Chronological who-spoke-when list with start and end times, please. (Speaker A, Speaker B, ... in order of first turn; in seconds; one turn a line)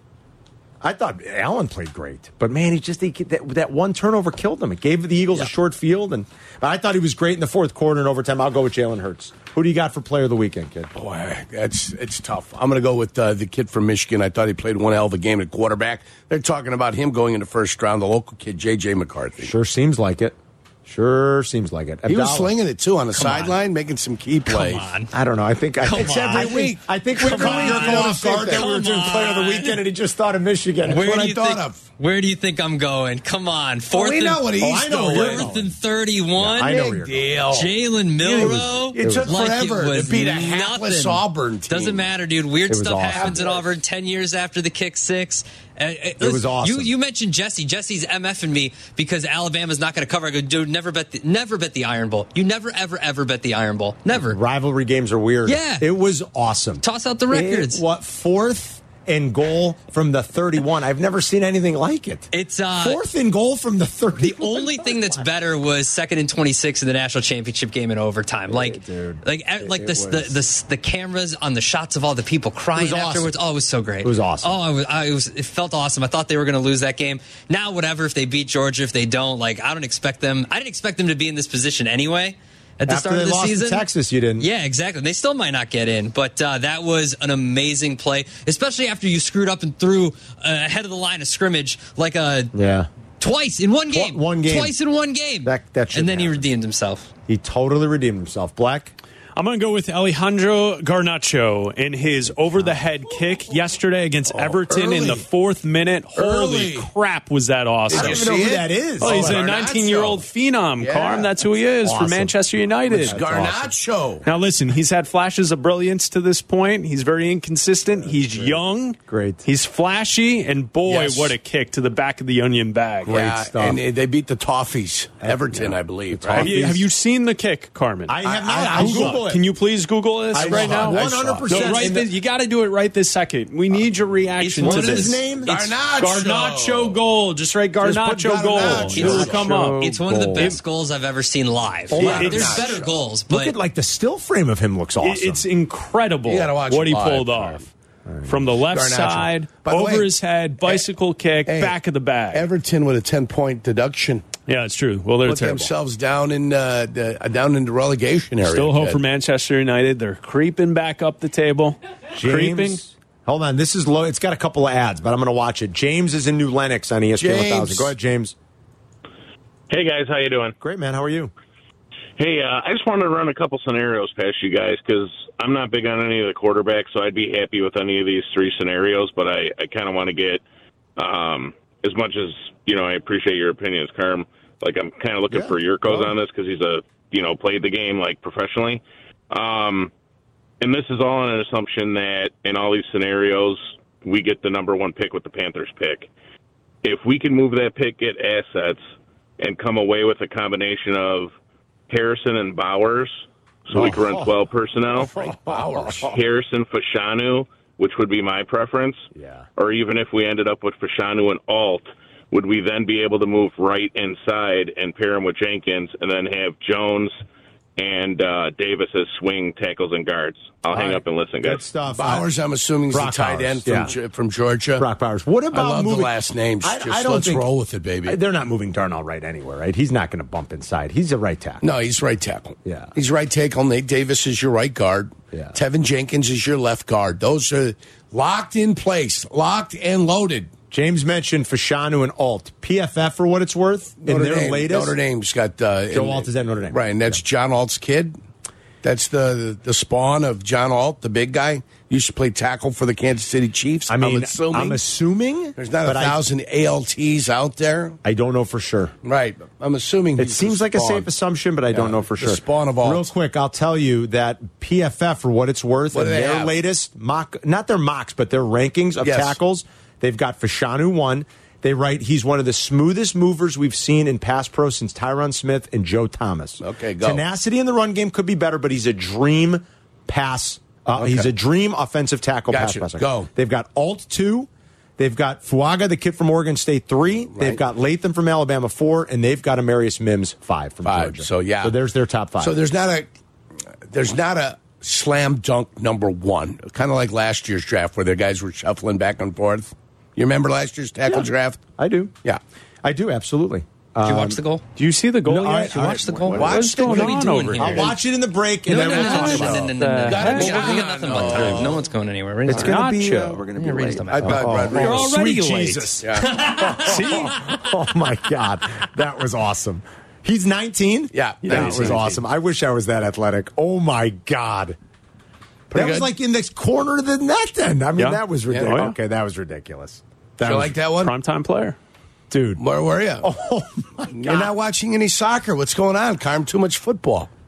Speaker A: 0.8-10.9
Speaker B: 10.9-19.5
Speaker A: 19.4-22.5
Speaker B: 22.1-24.9
Speaker C: 23.1-23.6
Speaker C: 24.5-25.1
Speaker A: 25.1-31.1
Speaker C: 25.8-29.8
Speaker B: 25.9-28.6
Speaker B: 30.9-31.8
Speaker C: 30.9-36.9
Speaker B: 33.9-35.5
Speaker A: 34.6-35.8
Speaker A: 36.4-37.3
Speaker B: 36.6-42.1
Speaker C: 37.5-54.4
Speaker A: 38.5-39.4
Speaker A: 42.7-43.4
Speaker B: 43.1-43.7
Speaker A: 46.2-46.9
Speaker A: 54.1-65.3
Speaker C: 55.5-55.9
Speaker C: 56.8-57.8
Speaker C: 62.3-63.0
Speaker C: 64.1-83.8
Speaker A: 68.5-70.4
Speaker A: 72.7-73.3
Speaker A: 74.0-74.6
Speaker A: 82.9-84.5
Speaker C: 84.4-92.5
Speaker A: 92.5-92.9
Speaker C: 93.2-97.1
Speaker A: 93.9-94.8
Speaker A: 95.4-96.5
Speaker A: 97.3-98.9
Speaker D: 99.3-108.4
Speaker A: 102.4-102.8
Speaker B: 104.3-105.2
Speaker B: 106.1-106.9
Speaker B: 107.9-110.2
Speaker A: 107.9-109.4
Speaker D: 109.0-113.2
Speaker B: 110.8-111.4
Speaker A: 111.8-112.3
Speaker B: 112.9-114.2
Speaker A: 113.0-113.7
Speaker D: 114.2-123.3
Speaker A: 117.9-119.5
Speaker B: 120.8-121.3
Speaker B: 123.0-126.8
Speaker A: 123.2-123.8
Speaker A: 125.2-126.8
Speaker D: 126.3-135.2
Speaker A: 128.1-129.4
Speaker B: 128.2-129.2
Speaker B: 130.3-131.9
Speaker A: 130.3-132.1
Speaker C: 134.4-135.7
Speaker A: 134.6-135.5
Speaker B: 134.7-137.0
Speaker D: 136.0-140.5
Speaker A: 137.8-140.6
Speaker B: 137.9-139.4
Speaker C: 139.0-143.5
Speaker A: 141.9-145.4
Speaker B: 141.9-142.9
Speaker D: 142.0-142.4
Speaker D: 145.0-147.7
Speaker B: 146.3-147.7
Speaker A: 148.1-148.3
Speaker D: 148.2-152.4
Speaker B: 148.6-150.1
Speaker B: 151.4-151.8
Speaker B: 152.3-154.3
Speaker D: 154.5-155.7
Speaker B: 155.2-159.0
Speaker D: 158.4-162.8
Speaker A: 162.1-168.3
Speaker B: 167.2-167.9
Speaker E: 169.7-170.5
Speaker A: 170.6-171.3
Speaker E: 172.2-180.4
Speaker E: 181.0-189.9
Speaker A: 185.3-186.1
Speaker E: 190.6-196.1
Speaker E: 196.8-198.8
Speaker E: 199.4-201.3
Speaker E: 201.9-205.1
Speaker A: 203.7-204.3
Speaker B: 204.9-206.1
Speaker A: 205.0-206.1
Speaker E: 206.0-209.1
Speaker A: 209.1-209.5
Speaker E: 209.6-217.2
Speaker E: 217.8-221.6
Speaker A: 220.7-222.3
Speaker B: 221.9-224.9
Speaker A: 222.9-223.9
Speaker A: 224.8-227.5
Speaker B: 225.5-228.2
Speaker A: 228.1-231.6
Speaker B: 231.6-240.5
Speaker A: 232.6-232.9
Speaker A: 240.7-244.9
Speaker B: 244.0-248.2
Speaker A: 245.9-247.2
Speaker B: 248.8-254.8
Speaker A: 253.9-256.2
Speaker B: 255.6-258.0
Speaker A: 258.0-258.9
Speaker B: 259.0-261.1
Speaker A: 260.2-292.6
Speaker B: 261.7-263.1
Speaker B: 265.9-266.5
Speaker B: 269.0-269.4
Speaker B: 276.6-277.2
Speaker B: 280.9-281.3
Speaker B: 282.5-283.3
Speaker B: 287.3-287.6
Speaker B: 290.8-291.8
Speaker B: 292.4-293.1
Speaker B: 293.9-301.6
Speaker A: 301.0-302.1
Speaker A: 302.8-304.4
Speaker C: 304.0-304.6
Speaker D: 304.8-308.0
Speaker A: 305.3-309.7
Speaker C: 306.0-306.4
Speaker B: 306.3-307.9
Speaker C: 306.9-307.3
Speaker C: 308.6-314.5
Speaker D: 308.7-310.6
Speaker B: 308.9-309.4
Speaker B: 310.0-311.8
Speaker D: 311.3-311.6
Speaker A: 312.4-324.8
Speaker D: 312.5-317.5
Speaker B: 314.1-315.2
Speaker B: 316.0-316.3
Speaker B: 321.1-322.1
Speaker D: 321.5-322.1
Speaker B: 325.7-326.1
Speaker A: 325.7-330.7
Speaker D: 328.0-328.9
Speaker B: 328.5-328.9
Speaker B: 330.4-331.1
Speaker D: 331.0-331.8
Speaker A: 332.3-332.6
Speaker B: 332.6-333.3
Speaker A: 333.2-334.5
Speaker B: 334.1-337.3